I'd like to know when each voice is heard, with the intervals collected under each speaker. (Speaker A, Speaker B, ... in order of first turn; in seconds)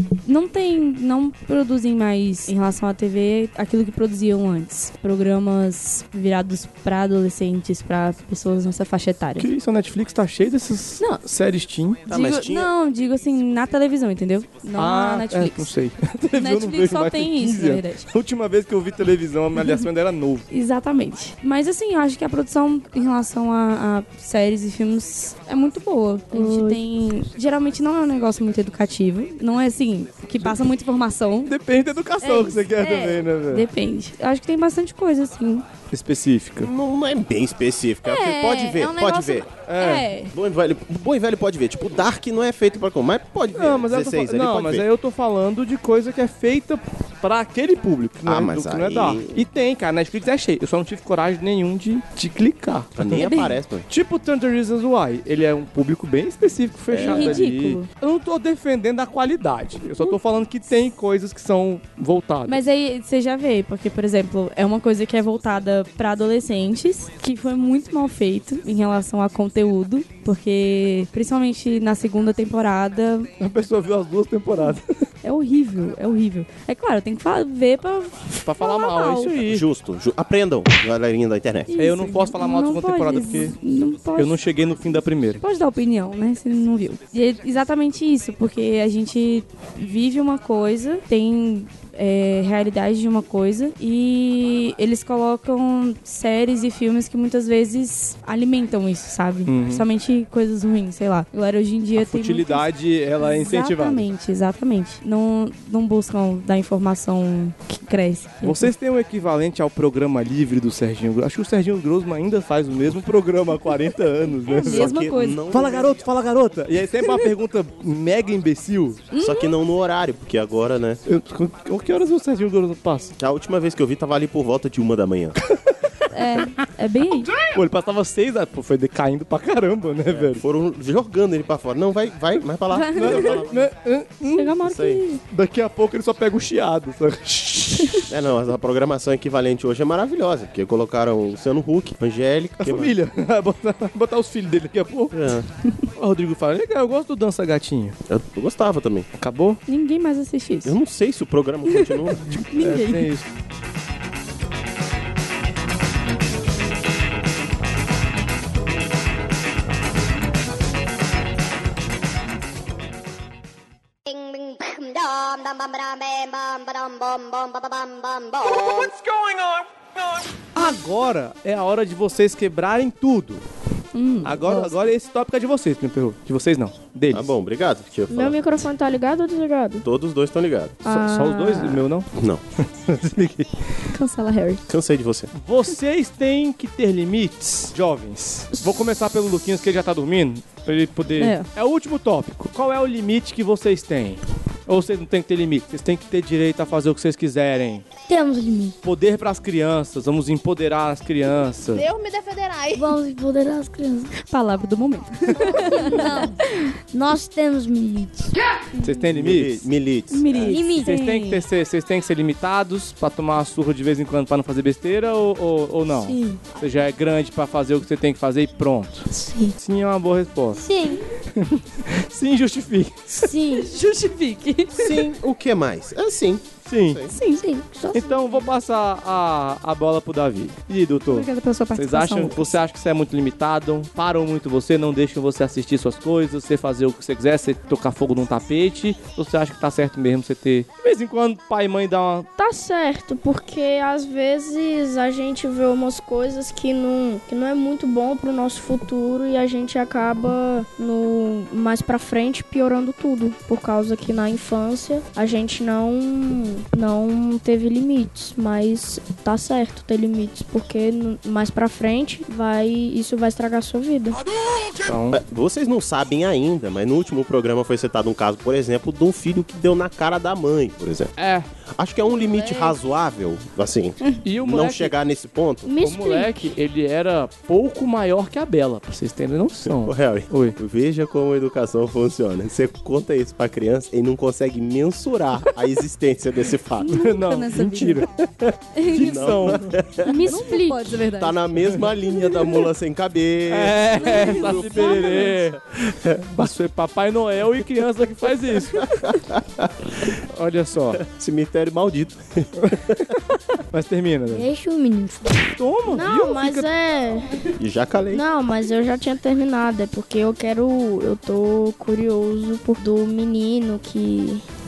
Speaker A: 0.2-9.5, 12.1-15.7, 16.3-18.1, 20.5-31.5, 32.2-35.7, 38.0-40.3, 53.1-53.6, 57.0-57.9, 62.5-73.3, 74.6-79.4, 81.7-84.4, 85.3-108.7, 114.5-115.4, 119.1-119.5, 126.1-127.3, 132.7-133.4, 134.2-135.2, 149.7-150.8, 151.7-151.9, 152.5-153.1, 173.9-174.8, 180.8-181.8, 183.9-184.6, 191.2-191.5, 204.2-206.3, 210.1-211.4, 223.5-224.9, 227.1-227.4, 231.1-232.6, 286.8-288.1, 288.7-291.4, 294.0-295.4
Speaker B: 9.4-12.0, 14.8-20.5, 31.4-33.7, 35.9-36.7, 39.5-40.1, 43.5-53.3, 53.9-62.6, 73.4-74.8, 78.4-79.7, 81.7-83.5, 84.2-85.4, 99.5-99.8, 102.0-104.0, 108.4-119.1, 121.0-123.1, 127.5-130.4, 132.9-134.6, 135.3-138.0, 142.6-145.2, 145.9-147.9, 149.2-149.6, 152.5-153.3, 170.5-173.4, 174.2-177.3, 180.8-182.1, 182.7-183.5, 185.3-197.8, 198.8-201.9, 208.8-209.7, 210.8-219.0, 219.6-220.6, 221.4-223.2, 226.6-227.0, 227.9-242.3, 264.8-265.2, 271.1-271.5, 274.2-274.9, 275.8-280.6, 286.9-288.1, 288.9-289.7, 293.5-295.6, 296.3-298.9, 300.3-301.0, 303.7-304.4, 305.4-306.7
Speaker C: 12.1-12.7, 36.6-39.5, 40.3-44.9, 48.2-49.4, 53.0-53.9, 56.9-57.4, 79.4-81.7, 114.6-116.0, 119.2-121.0, 123.2-125.3, 130.1-133.7, 134.6-135.0, 138.1-142.9, 145.1-145.4, 148.1-149.1, 150.6-152.3, 177.1-178.4, 179.8-180.8, 182.1-182.4, 184.7-185.3, 209.1-210.6, 224.7-227.1, 265.1-271.1, 271.8-275.7, 279.7-287.0, 288.9-290.4, 291.0-296.2, 299.2-299.7, 300.9-303.0, 307.6-308.2
Speaker D: 178.1-179.8, 201.7-202.8, 242.4-264.2, 275.6-276.5, 290.4-290.9, 305.9-307.3, 308.1-314.4
Speaker E: 198.1-198.8, 202.7-204.1, 205.3-208.3, 210.5-211.0, 215.9-216.6, 219.1-219.6, 220.5-221.0, 223.2-223.7, 227.2-228.3, 304.3-305.5